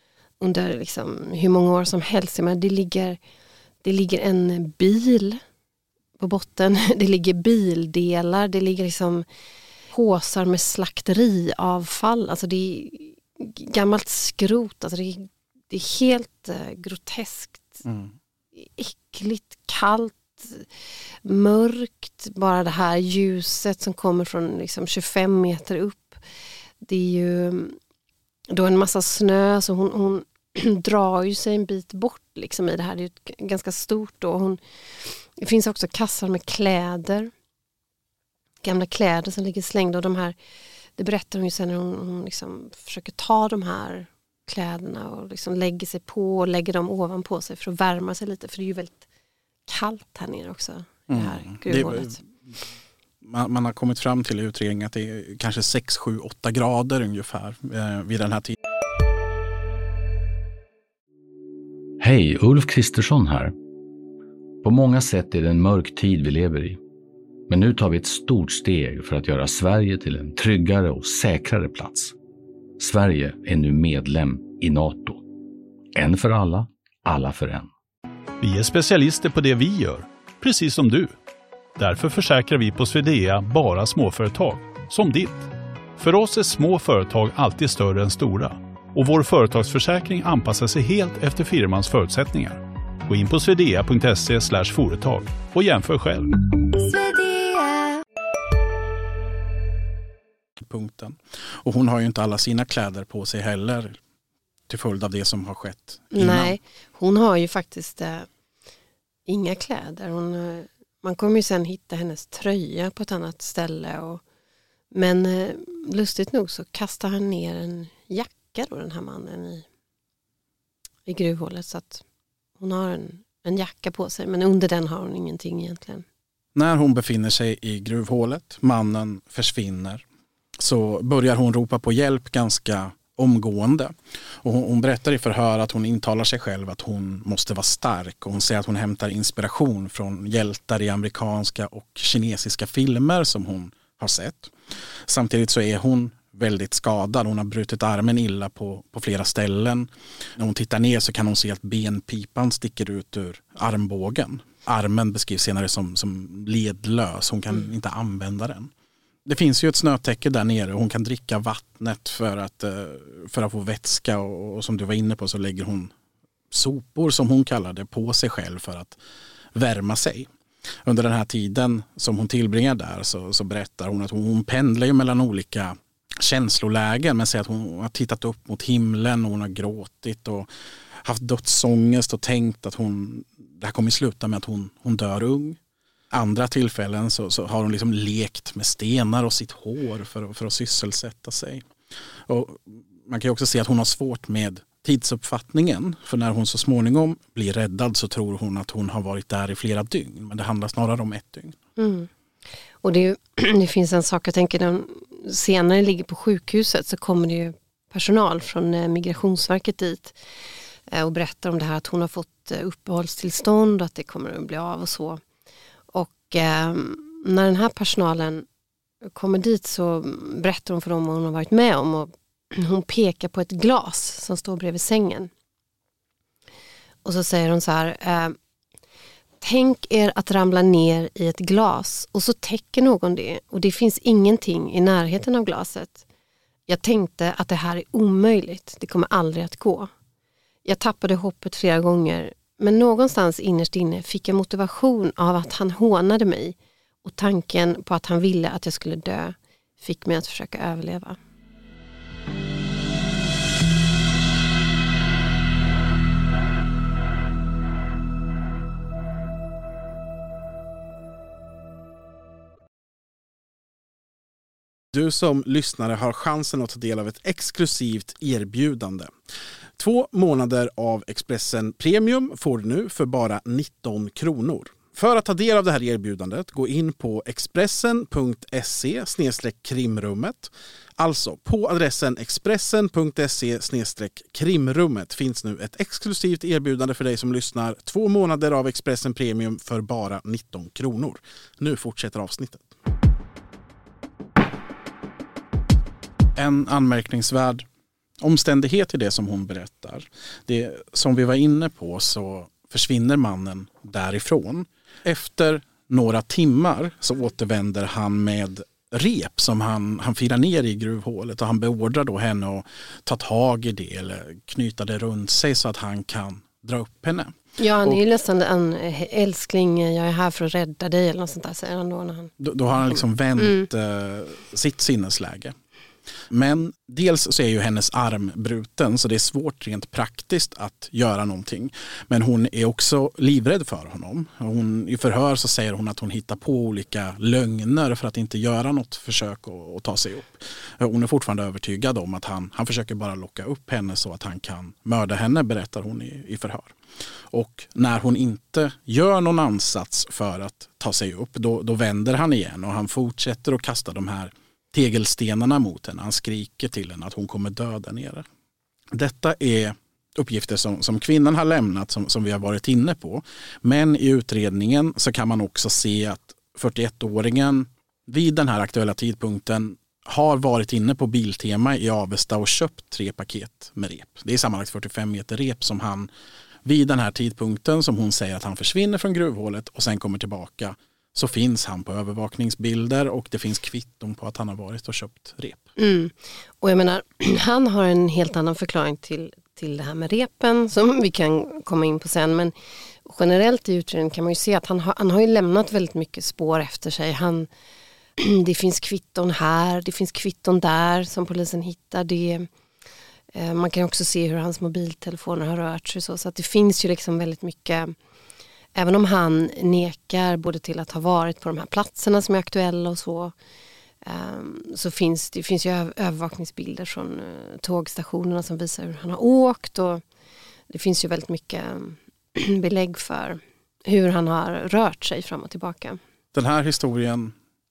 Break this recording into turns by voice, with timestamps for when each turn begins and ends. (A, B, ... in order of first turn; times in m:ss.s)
0:00.4-0:03.2 A
0:03.8-0:05.4 A
0:06.2-0:09.2 A
0:09.9-0:17.8 A
0:17.8-0:18.1 B
0:18.6-0:20.7 A
0:21.2-0:26.2 A
0:26.8-0:27.8 A
0:28.5-0:37.3 A
0:38.6-0:40.4 A
0:41.0-0:49.1 A
0:49.7-0:52.2 A
0:51.1-0:52.2 B
0:53.2-0:58.6 B
1:02.0-1:03.5 C
1:04.6-1:06.8 C
1:07.5-1:12.1 C
1:12.8-1:15.2 C
1:15.9-1:17.7 C
1:18.4-1:21.2 D
1:21.8-1:36.3 D
1:40.6-1:44.0 B
1:44.7-1:46.6 B
1:46.1-1:48.3 A
1:49.2-1:54.2 A
1:54.9-1:59.6 A
2:01.1-2:02.0 A
2:02.6-2:06.0 A
2:06.6-2:10.0 B
2:10.6-2:24.5 B
2:25.1-2:38.7 B
2:39.2-2:45.9 B
2:46.5-2:49.0 B
2:49.5-2:50.3 B
2:50.8-3:00.5 B
3:01.0-3:05.6 B
3:06.1-3:11.7 B
3:12.3-3:21.6 B
3:21.8-3:22.1 A
3:22.8-3:30.2 A
3:30.9-3:35.2 A
3:35.9-3:38.4 A
3:39.0-3:45.3 A
3:47.0-3:48.4 A
3:49.4-3:56.0 A
3:56.7-3:59.9 A
4:00.6-4:11.2 A
4:24.9-4:29.1 B
4:29.8-4:52.7 B
4:56.4-4:57.6 B
4:58.2-5:18.0 B
5:17.6-5:22.3 A
5:22.4-5:25.6 B
5:22.8-5:23.6 A
5:26.3-5:46.7 B
5:47.3-5:58.2 B
5:58.9-6:16.1 B
6:16.6-6:25.7 B
6:25.8-6:32.5 A
6:33.0-6:37.5 A
6:38.2-6:42.5 A
6:43.3-6:47.9 A
6:48.7-6:53.3 A
6:54.0-7:00.0 A
7:00.7-7:06.0 A
7:06.3-7:07.4 B